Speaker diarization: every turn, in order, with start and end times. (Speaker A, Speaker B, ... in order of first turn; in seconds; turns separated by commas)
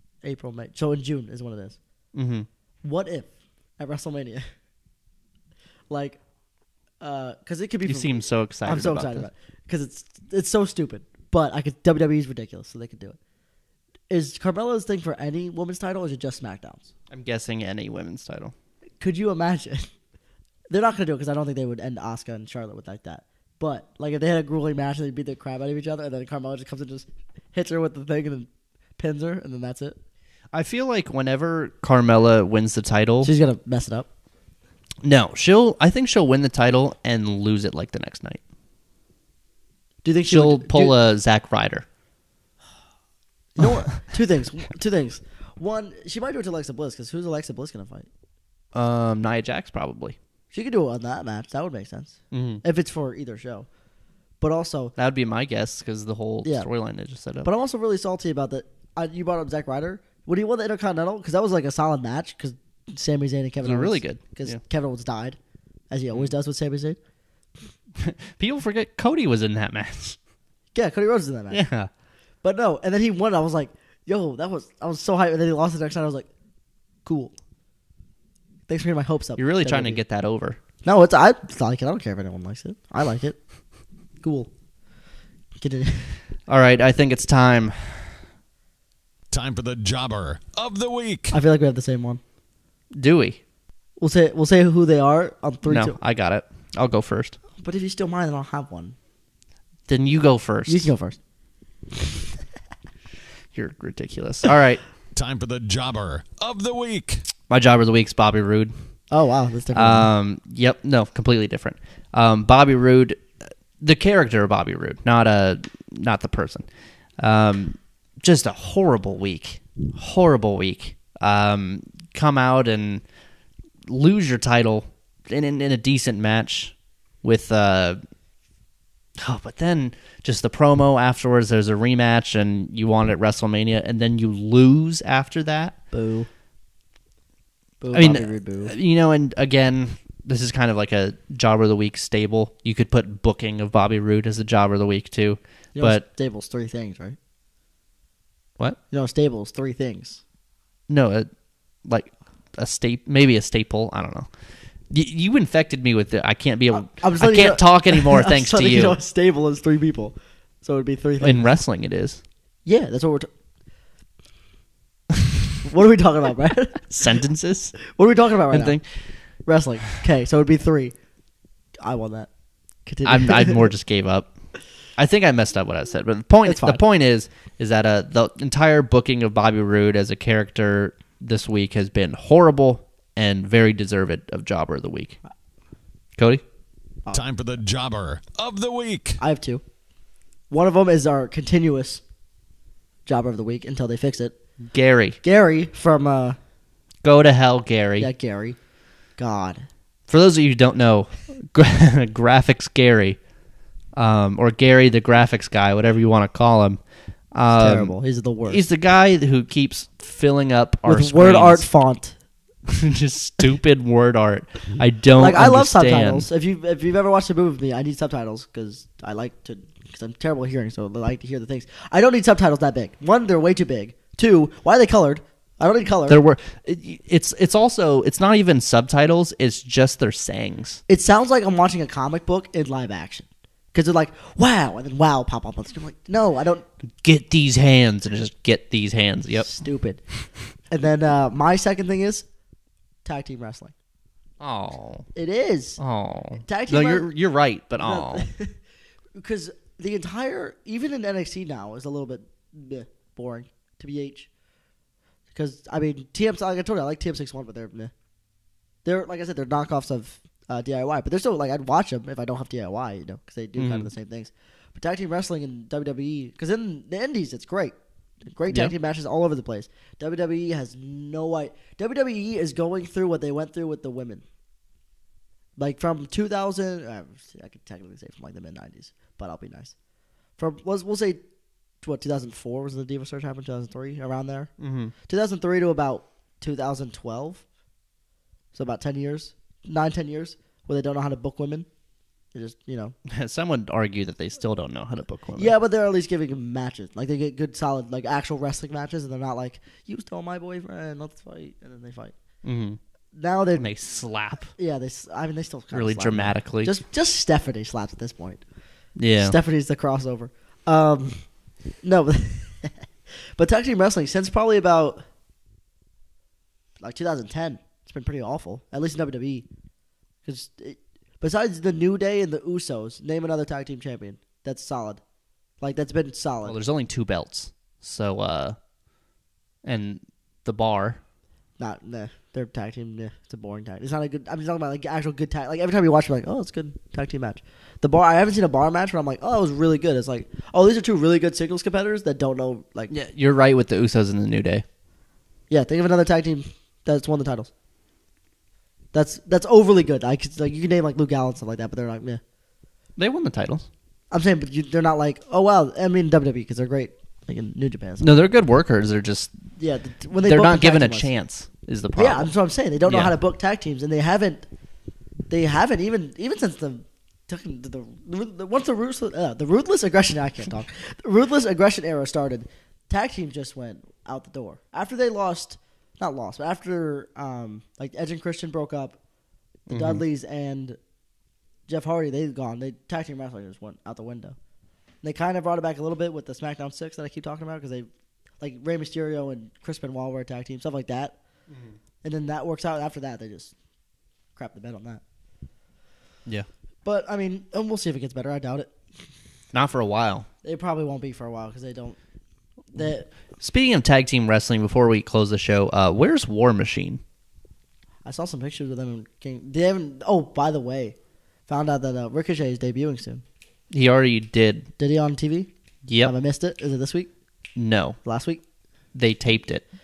Speaker A: 0.2-1.8, Speaker B: 2.1-2.5, Speaker A: 2.8-4.5, Speaker A: 5.9-6.2, Speaker A: 7.0-13.2, Speaker B: 7.9-9.3, Speaker A: 14.1-16.9, Speaker B: 17.1-18.5, Speaker A: 19.0-19.9, Speaker A: 20.7-30.0, Speaker B: 30.5-33.3, Speaker A: 33.2-34.1, Speaker B: 35.0-38.4, Speaker A: 40.0-41.0, Speaker B: 40.3-41.9, Speaker A: 43.6-48.1, Speaker B: 48.7-50.2, Speaker A: 50.5-53.7, Speaker B: 52.3-52.6, Speaker A: 54.4-55.0, Speaker B: 55.0-57.5, Speaker A: 57.4-65.4, Speaker B: 63.6-64.6, Speaker A: 65.9-67.0, Speaker B: 68.0-70.2, Speaker A: 70.7-71.6, Speaker B: 71.5-71.9, Speaker A: 72.4-76.3, Speaker A: 77.0-77.3, Speaker A: 78.7-80.0, Speaker B: 79.4-80.6, Speaker A: 80.8-83.4, Speaker A: 84.2-84.5, Speaker A: 85.6-86.2, Speaker B: 86.5-88.2, Speaker C: 89.3-91.3, Speaker A: 91.3-92.2, Speaker B: 92.9-93.4, Speaker A: 94.0-96.0, Speaker B: 95.7-97.4, Speaker A: 97.6-99.0, Speaker B: 99.9-100.8, Speaker A: 100.7-101.2, Speaker B: 103.5-104.8, Speaker C: 105.2-107.2, Speaker B: 107.5-108.7, Speaker A: 109.1-110.1, Speaker B: 109.7-123.0, Speaker B: 123.9-128.0, Speaker B: 129.2-135.8, Speaker A: 135.9-136.3, Speaker A: 137.8-138.7, Speaker B: 137.9-146.0, Speaker A: 145.7-147.2, Speaker A: 148.9-150.2, Speaker B: 150.9-151.3, Speaker B: 151.8-154.3, Speaker B: 154.9-159.0, Speaker A: 156.7-161.5, Speaker B: 161.2-162.2, Speaker A: 162.7-163.3, Speaker A: 165.6-167.0, Speaker B: 166.9-167.8, Speaker A: 167.9-170.9, Speaker B: 168.5-169.2, Speaker A: 171.8-172.3, Speaker A: 172.8-173.6, Speaker B: 173.1-185.2, Speaker A: 176.4-176.8, Speaker B: 186.2-186.4, Speaker C: 187.1-189.2, Speaker A: 189.2-189.6, Speaker A: 190.5-192.0, Speaker A: 193.1-194.4, Speaker B: 194.6-195.2, Speaker A: 195.2-196.4, Speaker B: 197.0-198.1, Speaker A: 198.0-198.6, Speaker A: 199.2-199.7, Speaker B: 200.1-203.2, Speaker B: 203.9-211.7, Speaker A: 207.6-208.6, Speaker A: 210.8-212.2, Speaker B: 212.7-216.3, Speaker A: 215.2-226.2, Speaker B: 226.1-230.8, Speaker A: 230.9-236.6, Speaker B: 237.0-239.5, Speaker A: 239.4-242.3, Speaker A: 243.1-243.7, Speaker B: 244.4-245.1, Speaker A: 245.2-245.8, Speaker B: 245.8-248.3, Speaker A: 246.3-247.1, Speaker A: 247.8-248.6, Speaker A: 249.2-254.3, Speaker A: 255.3-257.9, Speaker A: 258.8-267.8, Speaker B: 263.6-263.9, Speaker A: 268.3-274.2, Speaker A: 275.6-279.8, Speaker A: 280.4-281.2, Speaker A: 281.8-284.5, Speaker B: 284.6-284.9, Speaker A: 285.1-287.4, Speaker A: 288.5-291.7, Speaker A: 292.3-292.9, Speaker B: 293.1-295.5, Speaker A: 295.4-302.1, Speaker B: 302.4-302.8, Speaker A: 303.1-303.7, Speaker B: 303.6-304.5, Speaker A: 304.6-308.4, Speaker B: 305.7-306.7, Speaker B: 309.0-309.4, Speaker A: 309.2-311.2, Speaker A: 311.8-312.8, Speaker A: 313.4-315.0, Speaker A: 316.8-319.5, Speaker A: 320.2-325.0, Speaker A: 325.6-326.6, Speaker B: 326.4-328.6, Speaker B: 329.6-331.0, Speaker A: 331.6-342.9, Speaker B: 342.9-344.6, Speaker A: 345.5-347.5, Speaker A: 348.9-352.2, Speaker B: 353.0-353.7, Speaker A: 354.1-358.1, Speaker B: 358.0-359.3, Speaker A: 359.6-361.1, Speaker B: 360.2-362.3, Speaker A: 362.0-364.4, Speaker B: 362.9-363.1, Speaker A: 365.3-379.0, Speaker A: 379.7-380.8, Speaker B: 379.7-380.0, Speaker A: 381.7-384.4, Speaker A: 385.0-387.9, Speaker A: 388.4-391.2, Speaker B: 391.5-391.8, Speaker A: 392.0-393.5, Speaker A: 394.4-395.0, Speaker A: 396.9-398.7, Speaker B: 399.5-400.3, Speaker A: 400.4-402.0, Speaker A: 402.7-403.1, Speaker B: 403.4-407.0, Speaker A: 408.1-411.0, Speaker A: 411.5-413.2, Speaker B: 413.7-414.7, Speaker A: 414.8-415.5, Speaker B: 415.9-416.1, Speaker A: 416.0-417.1, Speaker B: 417.6-418.0, Speaker A: 418.0-418.4, Speaker B: 418.9-419.6